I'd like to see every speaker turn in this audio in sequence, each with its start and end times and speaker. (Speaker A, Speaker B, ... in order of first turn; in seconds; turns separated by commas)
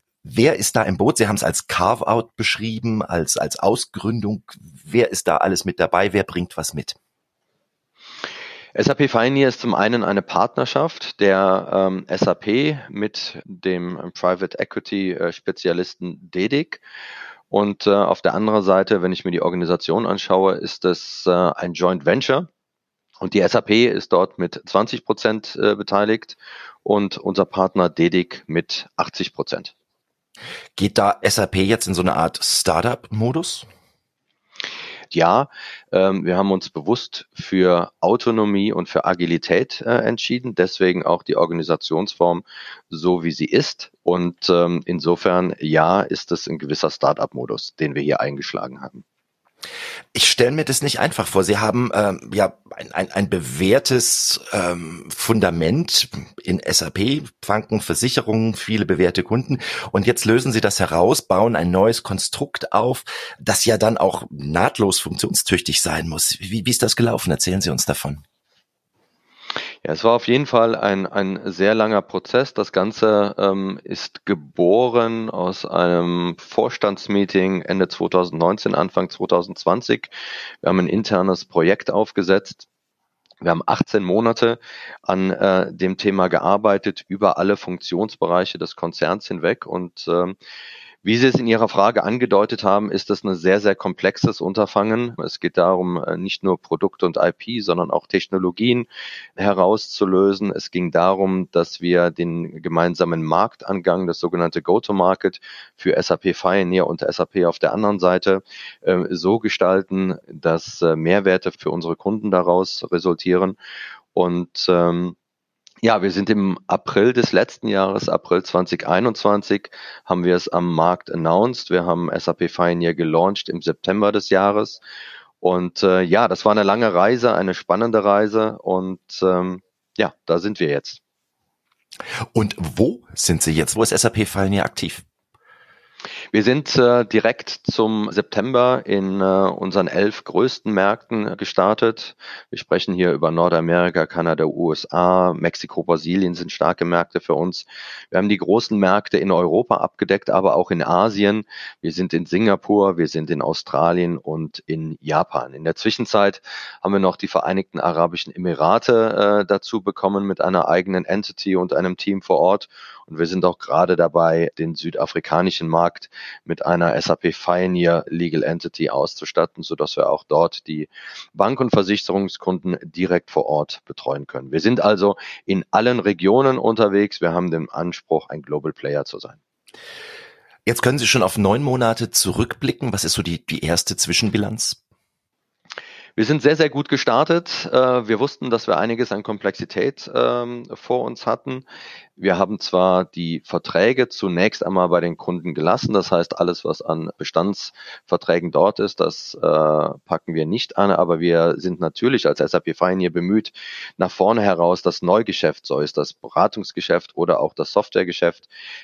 Speaker A: 0.2-7.0, Speaker B: 8.8-16.8, Speaker B: 17.5-22.5, Speaker B: 23.2-29.7, Speaker A: 30.8-33.7, Speaker B: 35.1-49.0, Speaker A: 50.1-68.2, Speaker B: 69.8-80.1, Speaker B: 80.6-82.7, Speaker B: 83.4-90.4, Speaker B: 91.0-113.6, Speaker B: 114.2-115.2, Speaker B: 115.8-124.8, Speaker B: 125.4-131.0, Speaker A: 132.3-135.0, Speaker B: 136.3-179.4, Speaker A: 180.7-184.8, Speaker B: 186.2-191.6, Speaker B: 192.2-208.5